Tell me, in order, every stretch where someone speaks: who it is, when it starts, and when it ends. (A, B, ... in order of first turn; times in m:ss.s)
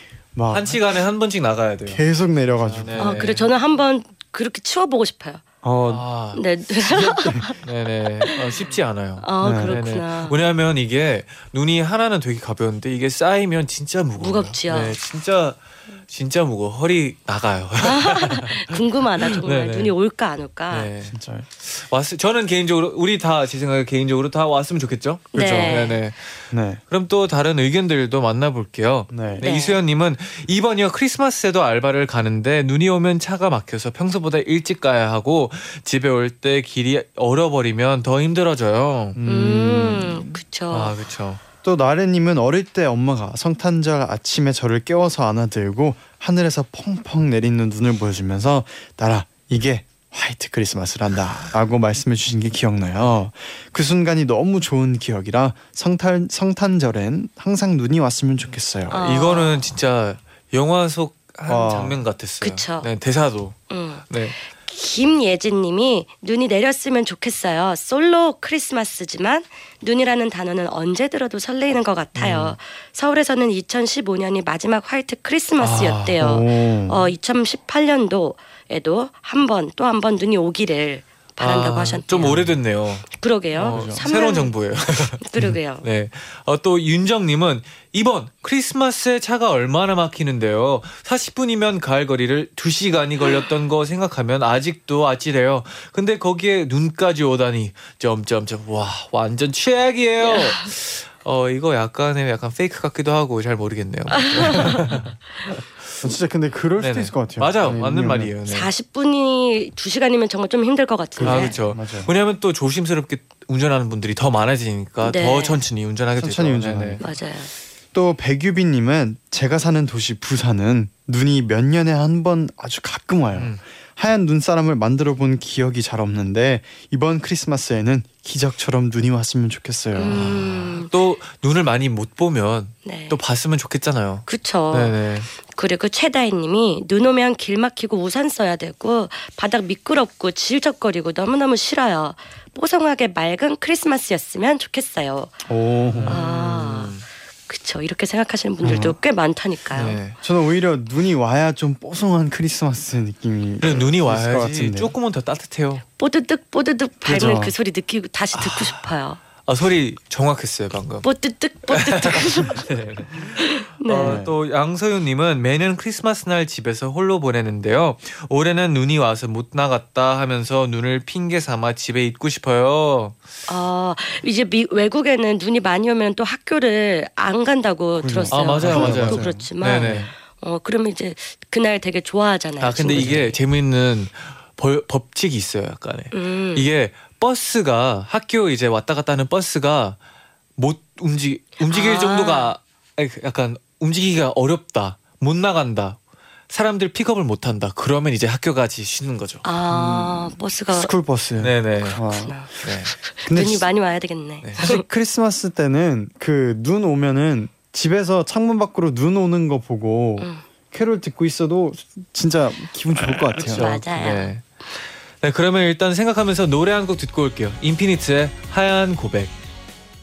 0:00.4-0:00.8 A
0:00.5-0:02.0 B
0:01.9-0:03.3 A
0:02.6-0:03.4 B
0:03.0-0:05.4 C
0:05.6-0:06.0 A
0:05.9-0:06.4 B
0:06.4-0:07.6 C
0:06.8-0:07.6 A
0:07.6-0:19.9 B
0:09.2-0:10.4 C
0:09.4-0:09.8 A
0:14.2-0:15.0 C
0:17.8-0:20.9 C
0:20.7-0:39.2 B
0:21.1-0:21.5 A
0:25.3-0:26.0 C
0:25.4-0:25.8 A
0:26.5-0:26.8 A
0:29.1-0:29.5 A
0:29.4-0:29.8 C
0:39.2-0:40.4 A
0:39.3-0:41.0 C
0:40.7-0:41.4 B
0:41.6-0:59.0 A
0:58.9-0:59.7 C
0:59.0-1:03.6 B
1:01.5-1:02.0 A
1:02.4-1:02.9 C
1:03.7-1:22.5 C
1:04.1-1:04.4 B
1:12.2-1:12.6 B
1:15.6-1:16.2 B
1:16.2-1:17.1 A
1:21.4-1:25.2 B
1:23.1-1:24.5 C
1:23.6-1:24.0 A
1:25.2-1:25.9 C
1:25.8-1:45.6 B
1:40.3-1:40.6 C
1:44.4-1:45.0 C
1:46.0-1:48.3 A
1:46.8-1:48.7 B
1:48.5-1:51.6 C
1:51.2-1:52.1 A
1:51.2-1:57.0 B
1:55.0-1:55.6 C
1:56.2-1:57.2 A
1:57.0-1:57.5 C
1:57.9-2:10.3 A
2:03.4-2:03.6 B
2:10.0-2:10.9 C
2:10.1-2:15.3 B
2:12.8-2:13.2 C
2:14.3-2:25.4 C
2:25.5-2:26.2 A
2:25.9-2:27.0 B
2:26.1-2:27.0 C
2:27.5-2:30.0 C
2:28.6-2:29.0 A
2:29.7-2:30.2 B
2:30.2-2:34.9 A
2:33.6-2:35.8 B
2:36.0-2:39.2 C
2:37.1-2:37.5 A
2:37.1-2:37.4 B
2:38.3-2:38.8 B
2:39.4-2:41.1 B
2:41.0-2:42.7 C
2:41.7-2:53.2 B
2:43.4-2:44.2 C
2:44.0-2:44.4 A
2:53.5-3:03.4 C
2:58.0-2:59.5 A
2:58.3-3:00.1 B
3:02.6-3:10.0 B
3:02.9-3:03.3 A
3:06.1-3:06.7 C
3:10.6-3:16.0 B
3:11.6-3:12.5 C
3:16.5-3:19.4 B
3:19.4-3:20.9 C
3:19.7-3:22.7 A
3:21.4-3:22.0 B
3:21.8-3:24.8 C
3:22.5-3:23.0 B
3:23.3-3:23.7 A
3:24.6-3:33.7 A
3:30.2-3:30.4 C
3:33.1-3:34.4 B
3:33.4-3:34.3 C
3:35.2-3:39.4 B